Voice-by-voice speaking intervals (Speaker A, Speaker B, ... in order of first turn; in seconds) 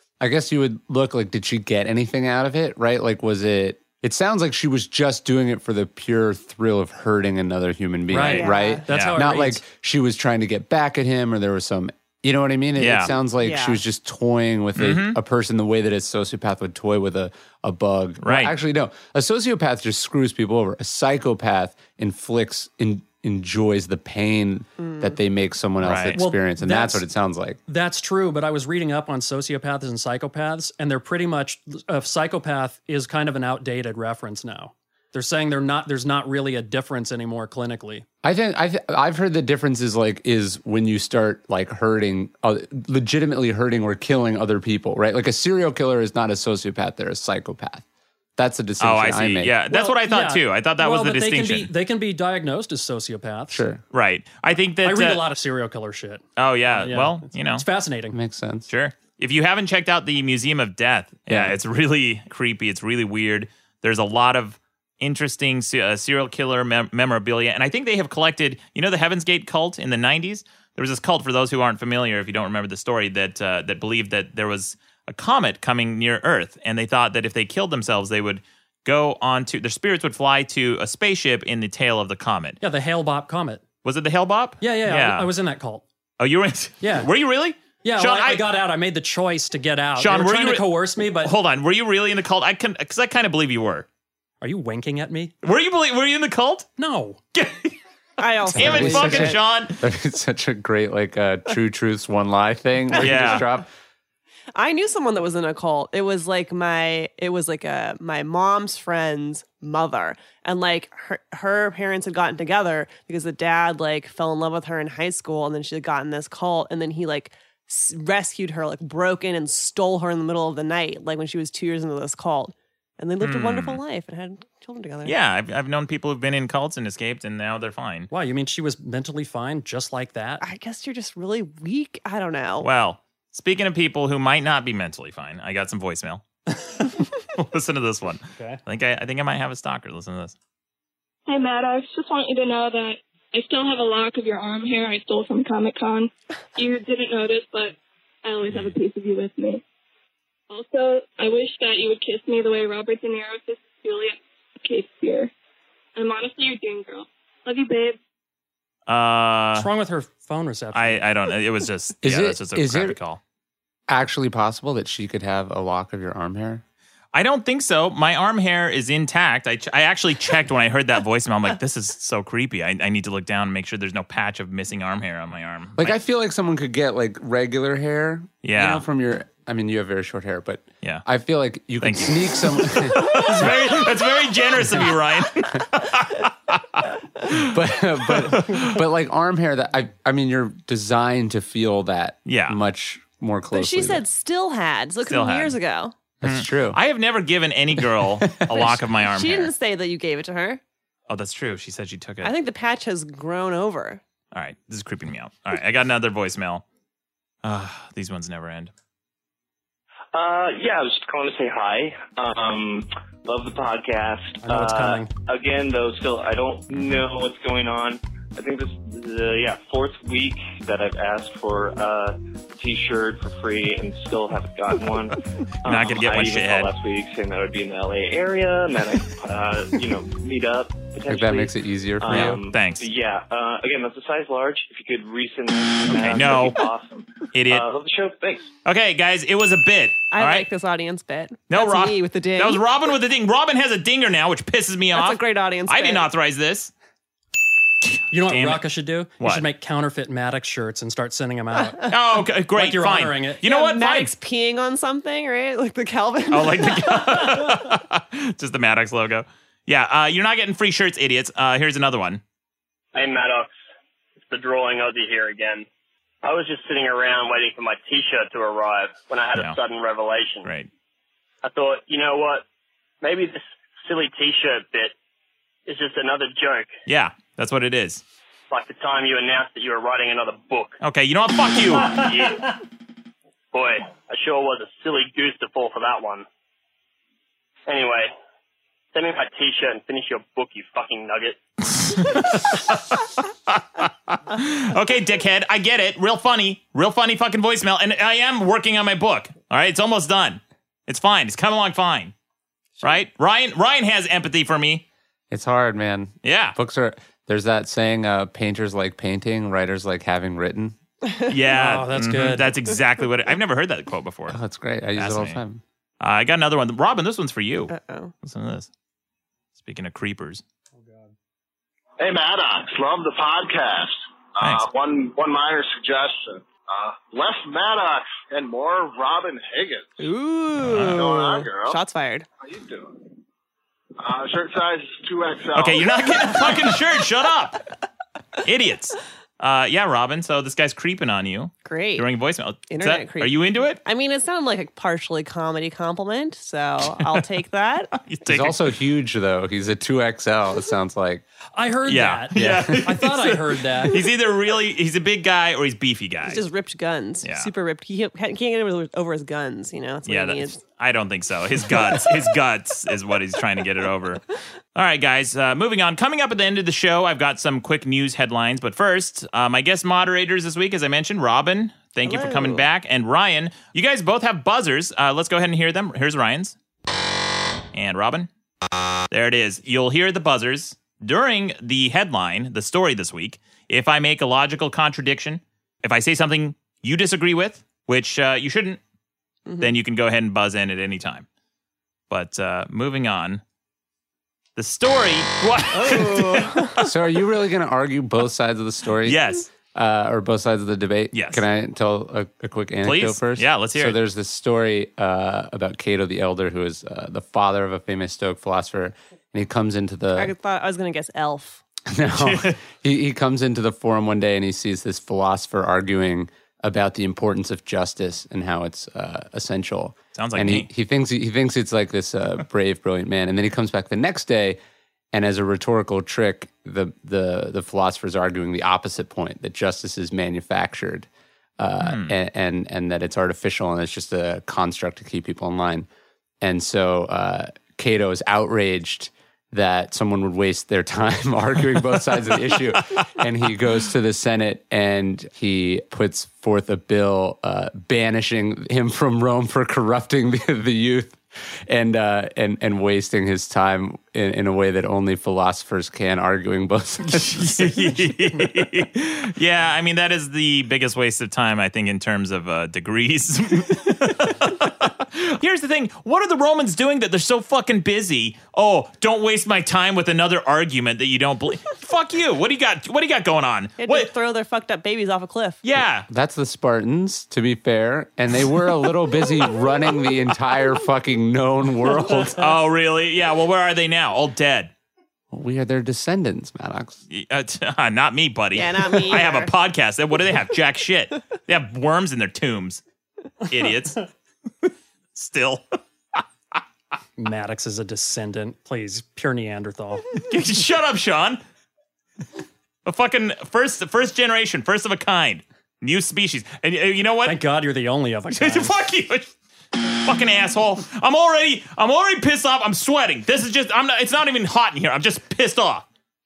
Speaker A: 0.2-27.6, 38.2-47.8, 48.4-49.5, 53.5-53.8, 58.1-58.7, 61.3-61.5, 98.5-103.7, 162.0-163.0, 163.9-166.6, 175.8-183.6, 187.3-194.0, 196.2-196.8, 197.8-198.8, 231.1-232.4, 305.3-310.8, 314.3-315.6, 348.3-351.2, 352.3-352.9, 396.8-410.3, 411.9-424.6, 425.1-431.1, 431.6-435.9, 436.4-458.1, 476.1-482.5, 485.3-487.0
Speaker B: 8.1-9.6, 26.2-27.0, 27.7-38.0, 49.7-53.6, 54.8-58.2, 82.6-83.6, 84.6-85.8, 86.8-87.1, 87.8-91.3, 94.4-95.3, 96.8-97.2, 98.8-99.3, 128.1-130.4, 159.5-161.0, 183.2-183.5, 214.4-215.1, 248.1-251.9, 252.5-253.4, 311.5-312.5, 320.8-321.1, 351.5-354.0, 497.2-500.1, 507.2-508.7
Speaker C: 8.1-9.2, 12.8-13.1, 14.8-15.2, 18.2-18.5, 25.8-26.2, 48.8-51.7, 53.9-55.2, 56.4-57.6, 58.7-82.6, 83.8-85.3, 86.2-88.5, 90.0-93.9, 95.4-96.7, 97.3-97.8, 98.4-99.8, 102.9-103.5, 123.2-123.8, 125.0-128.1, 132.6-136.2, 136.8-140.3, 158.9-159.7, 160.7-163.2, 167.1-175.9, 178.4-178.8, 181.8-188.8, 192.2-192.6, 195.1-195.6, 196.2-199.5, 201.1-202.3, 204.3-206.6, 207.4-208.7, 225.6-226.7, 232.1-232.8, 235.9-236.6, 237.3-237.6, 238.6-240.5, 241.5-246.7, 247.8-248.6, 249.2-249.4, 251.9-254.1, 256.3-262.2, 270.4-270.7, 276.9-278.0, 280.8-282.1, 292.1-302.1, 302.8-304.9, 306.2-306.6, 311.3-314.4, 314.9-315.4, 316.0-318.7, 319.6-320.4, 324.4-324.6, 330.6-331.0, 335.5-337.6, 338.4-343.8, 347.9-348.7, 351.9-356.4, 357.2-357.5, 360.0-364.2, 364.7-376.6, 377.7-378.3, 379.1-388.8, 389.6-391.2, 392.1-393.4, 394.6-396.9, 399.0-399.5, 401.1-401.4, 402.8-404.0, 412.1-412.6, 420.1-420.7, 431.8-432.1, 457.1-474.1, 475.6-476.1, 482.3-484.7, 487.1-492.8, 493.4-494.1, 494.6-496.2, 500.1-501.4, 502.8-507.4, 508.3-509.3, 509.9-515.8
Speaker D: 8.3-8.8, 13.4-13.8, 24.8-25.1, 98.2-99.2, 103.0-103.4, 104.5-125.2, 130.4-132.7, 193.5-195.9, 199.1-200.6, 202.2-204.0, 240.1-242.6, 244.9-246.1, 253.4-257.5, 311.0-311.3, 317.7-318.1, 330.0-332.3, 341.6-342.1, 342.7-347.9, 356.2-360.6, 361.7-362.0, 372.0-372.6, 395.7-396.9, 410.1-411.6, 473.8-475.6, 488.5-489.5
Speaker E: 141.3-149.6, 150.5-155.3, 155.9-158.0
Speaker F: 210.1-238.5
Speaker G: 262.9-263.5, 264.3-265.7, 266.2-270.5, 271.4-272.4, 273.0-274.9, 275.6-276.7, 278.5-280.8, 281.8-282.6, 283.5-286.2, 287.7-288.1, 288.9-291.4
Speaker H: 322.0-330.1, 330.8-331.8, 332.4-333.1, 334.0-336.7